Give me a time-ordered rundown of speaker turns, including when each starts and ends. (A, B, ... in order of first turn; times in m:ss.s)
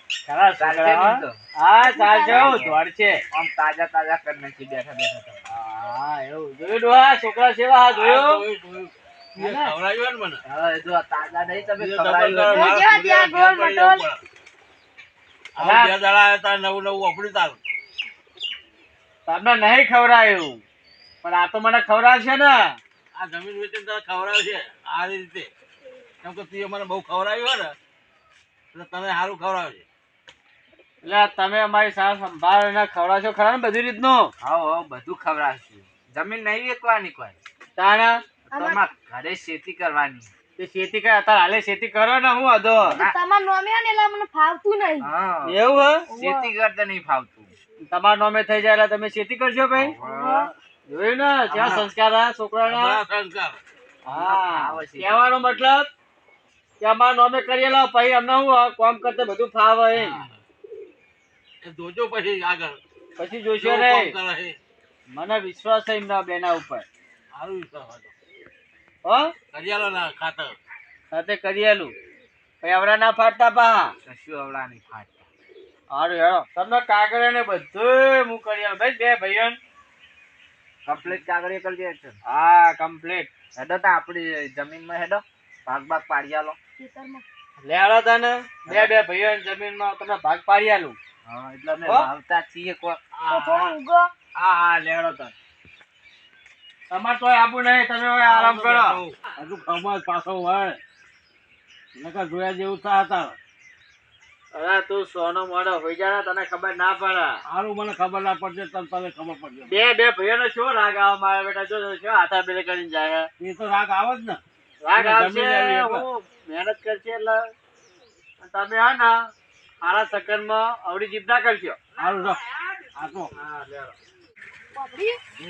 0:00.3-0:03.2 A
0:00.6-0:01.4 B
0:01.8-0:02.6 C
0:02.3-0:02.8 B
0:03.3-0:05.4 B
0:05.5-0:08.4 A
0:07.9-0:10.4 D
0:09.4-0:09.7 A
0:10.4-0:12.8 B
0:11.8-0:14.2 D
0:12.5-0:14.0 C
0:15.6-0:17.6 D
0:15.6-0:15.9 A
0:19.2-0:20.6 A
0:21.2-0:22.8 A
0:23.1-0:25.5 D
0:26.2-0:27.8 D
0:28.7-0:29.8 D
0:31.0-0:34.3 A
0:34.4-0:37.4 B
0:37.8-0:38.2 A
0:38.5-0:40.3 B
0:38.5-0:38.8 C
0:40.6-0:43.0 A
0:42.8-0:43.2 B
0:42.9-0:45.1 C
0:45.0-0:45.6 B
0:45.4-0:46.1 A
0:46.1-0:46.5 C
0:46.1-0:47.5 B
0:47.9-0:49.9 A
0:49.7-0:50.5 B
0:50.0-0:50.5 C
0:50.9-0:53.0 A
0:52.6-0:53.6 D
0:54.0-0:55.3 B
0:54.0-0:55.9 A
0:56.8-1:00.2 A
0:59.9-1:00.4 D
1:01.6-1:02.8 D
1:03.2-1:04.1 A
1:03.6-1:04.6 D
1:05.1-1:06.8 A
1:07.3-1:08.1 D
1:09.0-1:09.3 A
1:09.5-1:10.6 D
1:11.1-1:11.9 A
1:12.6-1:13.9 A
1:14.0-1:15.3 B
1:15.9-1:19.6 A
1:20.8-1:22.2 B
1:22.2-1:23.3 A
1:23.5-1:26.6 B
1:26.8-1:27.2 C
1:27.6-1:31.0 A
1:28.6-1:28.9 B
1:31.2-1:33.0 B
1:31.8-1:32.1 A
1:33.2-1:33.7 A
1:33.3-1:34.1 C
1:34.3-1:35.3 B
1:34.9-1:35.2 A
1:36.9-1:39.0 A
1:38.2-1:40.8 D
1:42.0-1:43.4 D
1:44.5-1:47.4 A
1:47.4-1:49.7 D
1:49.7-1:53.3 A
1:53.4-1:54.4 D
1:54.8-1:57.5 A
1:54.9-1:56.0 D
1:58.4-2:01.8 A
2:02.0-2:02.4 D
2:02.9-2:03.3 D
2:03.3-2:03.9 A
2:04.7-2:05.2 C